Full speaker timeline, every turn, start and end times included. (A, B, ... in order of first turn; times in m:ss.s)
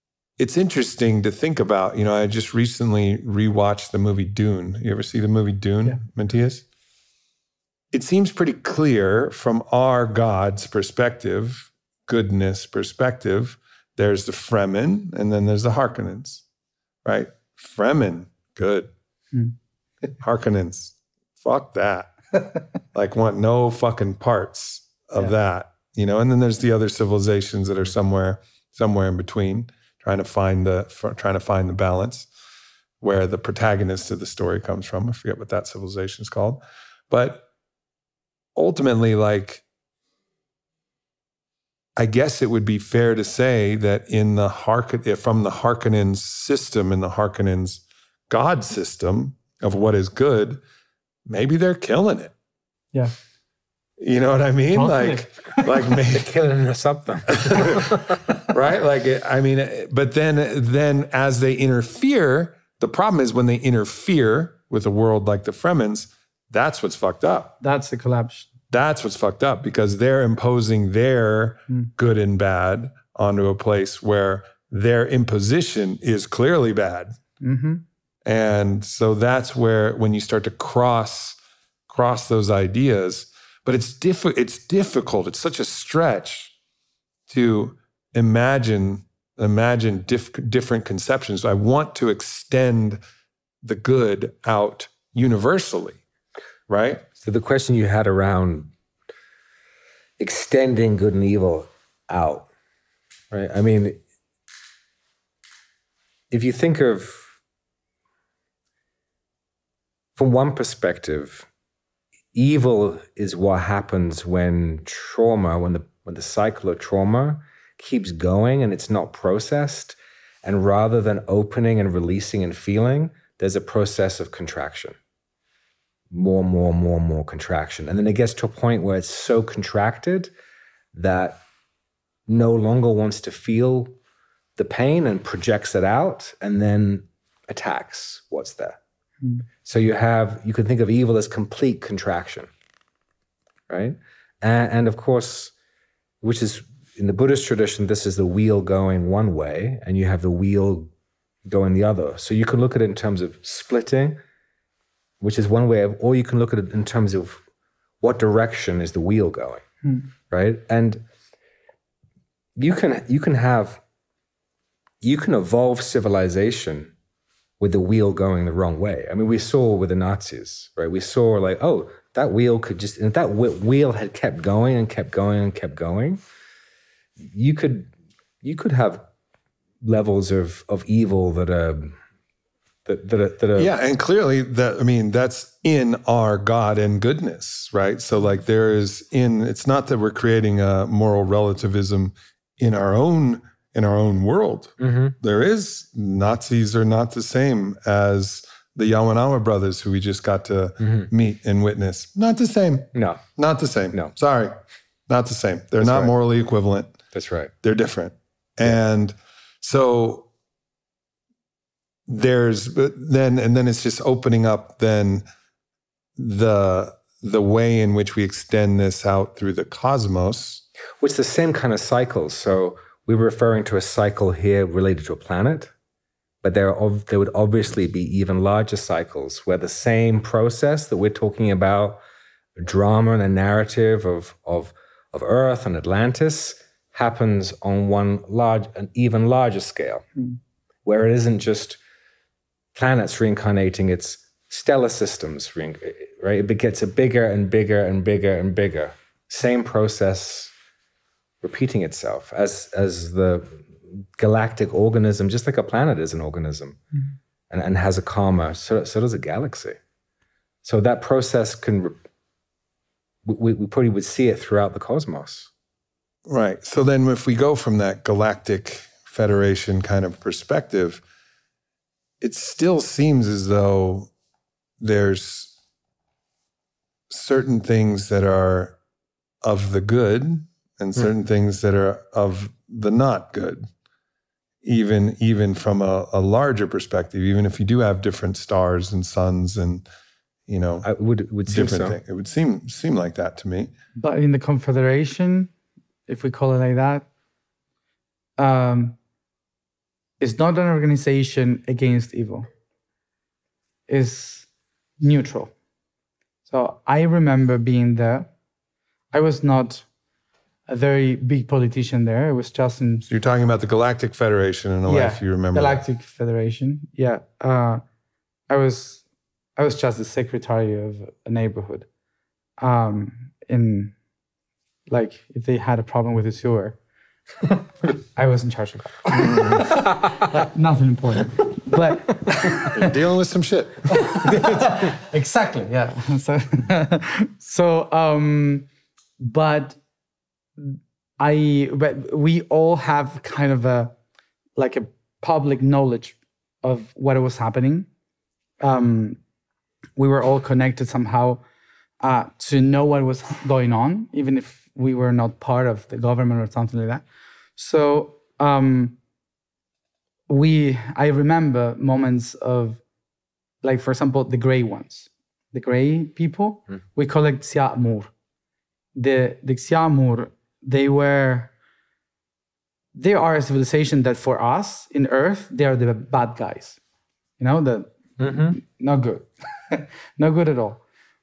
0:00.4-0:06.6 A
0:07.9-0:16.4 A
0:17.0-0:18.9 A
0:20.2-0:22.1 A
0:22.9-0:32.3 A
0:33.0-0:37.4 A
0:38.5-0:39.6 A
0:42.0-0:50.6 A
0:51.3-0:52.3 A
0:54.0-0:56.3 A
0:54.7-0:55.7 B
0:56.1-0:58.2 C
0:57.4-1:07.5 A
1:07.6-1:08.5 B
1:08.7-1:17.2 A
1:17.4-1:17.8 B
1:18.2-1:21.4 A
1:21.9-1:26.5 A
1:27.3-1:33.0 A
1:33.6-1:36.0 A
1:36.7-1:37.0 A
1:37.2-1:38.7 C
1:40.2-1:42.5 C
1:43.3-1:44.0 C
1:46.3-1:47.3 C
1:50.2-1:51.5 C
1:52.3-2:05.0 C
2:06.1-2:10.3 C
2:10.9-2:11.4 C
2:12.3-2:13.9 C
2:14.6-2:18.8 C
2:19.6-2:22.5 C
2:23.7-2:25.5 C
2:26.2-2:30.9 C
2:31.5-2:34.2 C
2:35.2-2:37.4 C
2:38.0-2:39.6 C
2:40.3-2:41.0 C
2:42.6-2:43.8 C
2:45.0-2:46.9 C
2:47.6-2:56.2 C
2:57.2-2:57.9 C
2:58.4-2:59.0 C
2:59.8-3:02.0 C
3:02.8-3:03.7 C
3:03.6-3:24.6 A
3:14.8-3:15.1 C
3:20.8-3:21.1 C
3:22.9-3:23.2 C
3:25.1-3:27.0 A
3:25.8-3:26.1 C
3:27.1-3:27.5 C
3:27.6-3:30.3 A
3:32.1-3:35.2 A
3:36.2-3:40.6 A
3:41.0-3:45.7 C
3:46.4-3:52.0 C
3:52.6-4:00.1 C
4:00.8-4:01.8 C
4:02.7-4:10.5 C
4:11.4-4:16.8 C
4:17.5-4:19.8 C
4:20.6-4:21.9 C
4:23.2-4:25.5 C
4:26.2-4:31.0 A
4:32.2-4:34.1 A
4:34.8-4:35.5 A
4:37.1-4:38.8 A
4:39.4-4:43.6 A
4:44.6-4:49.8 A
4:50.5-4:50.9 A
4:50.8-4:52.0 C
4:51.5-4:53.7 A
4:54.0-4:55.5 B
4:56.1-4:57.1 B
4:58.4-4:59.0 B
5:00.2-5:02.5 B
5:03.9-5:04.5 B
5:05.0-5:05.5 B
5:06.4-5:08.3 B
5:09.1-5:09.9 B
5:10.7-5:13.0 B
5:13.1-5:15.8 A
5:14.8-5:17.8 B
5:18.5-5:19.0 B
5:19.6-5:21.9 B
5:22.6-5:23.9 B
5:24.9-5:26.8 B
5:28.1-5:32.9 B
5:29.3-5:29.6 A
5:32.6-5:34.2 A
5:33.9-5:38.7 B
5:39.2-5:39.8 B
5:40.6-5:43.9 B
5:44.6-5:47.9 B
5:48.6-5:49.2 B
5:50.0-5:51.4 B
5:52.0-5:57.0 B
5:57.6-5:59.0 B
6:00.3-6:02.8 B
6:03.6-6:08.1 B
6:08.9-6:11.5 B
6:12.9-6:16.8 B
6:17.4-6:20.8 B
6:18.2-6:18.6 C